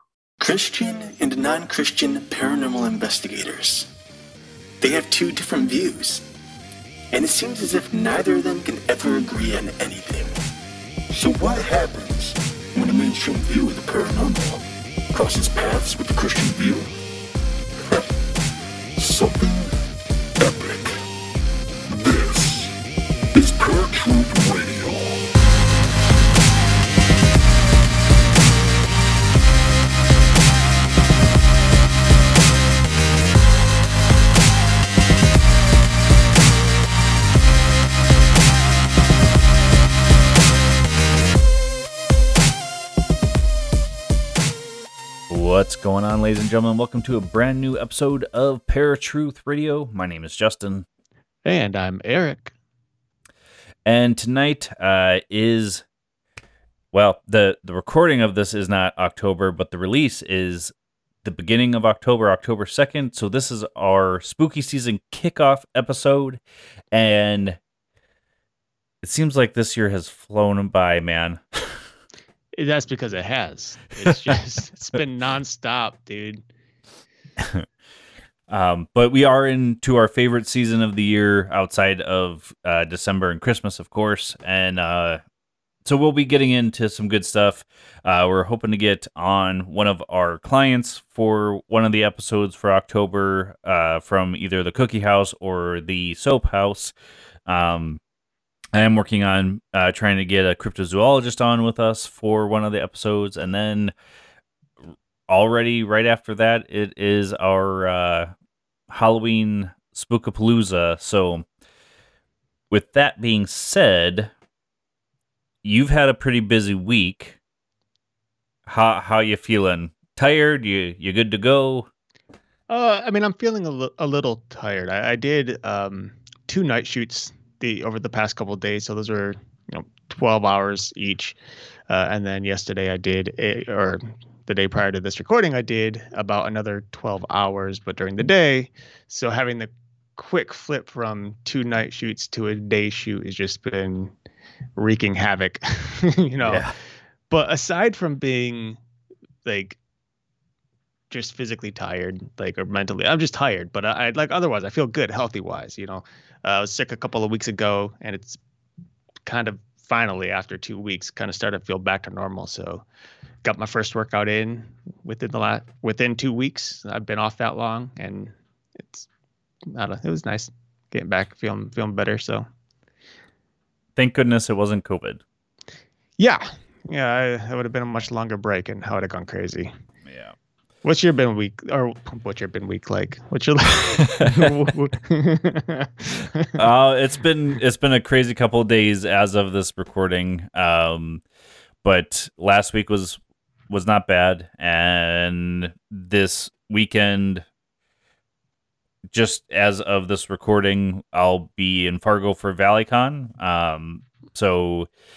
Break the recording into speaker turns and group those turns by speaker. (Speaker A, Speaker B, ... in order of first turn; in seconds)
Speaker A: 0.4-3.9, 4.8-6.2, 7.1-10.3, 11.1-16.9, 19.0-19.7, 20.4-20.9, 22.0-22.7, 23.3-25.2
Speaker B: 45.3-50.9, 53.8-55.8, 56.9-60.7, 61.2-67.6, 69.0-71.8, 77.4-77.7, 78.5-85.2, 85.8-96.9, 97.5-98.0, 98.7-103.9, 105.3-108.3, 108.9-111.5, 112.7-114.3, 115.6-117.4, 118.7-121.9, 146.4-146.7, 174.0-175.2, 180.1-180.3, 184.0-184.7, 186.6-191.2, 191.8-197.5, 199.1-204.9
Speaker C: 51.5-52.5, 72.5-76.5, 122.7-131.4, 131.9-144.1, 144.8-146.7, 147.3-148.8, 149.4-149.8, 151.1-158.4, 159.2-162.8, 163.4-168.3, 169.7-172.5, 176.2-179.7, 180.8-186.6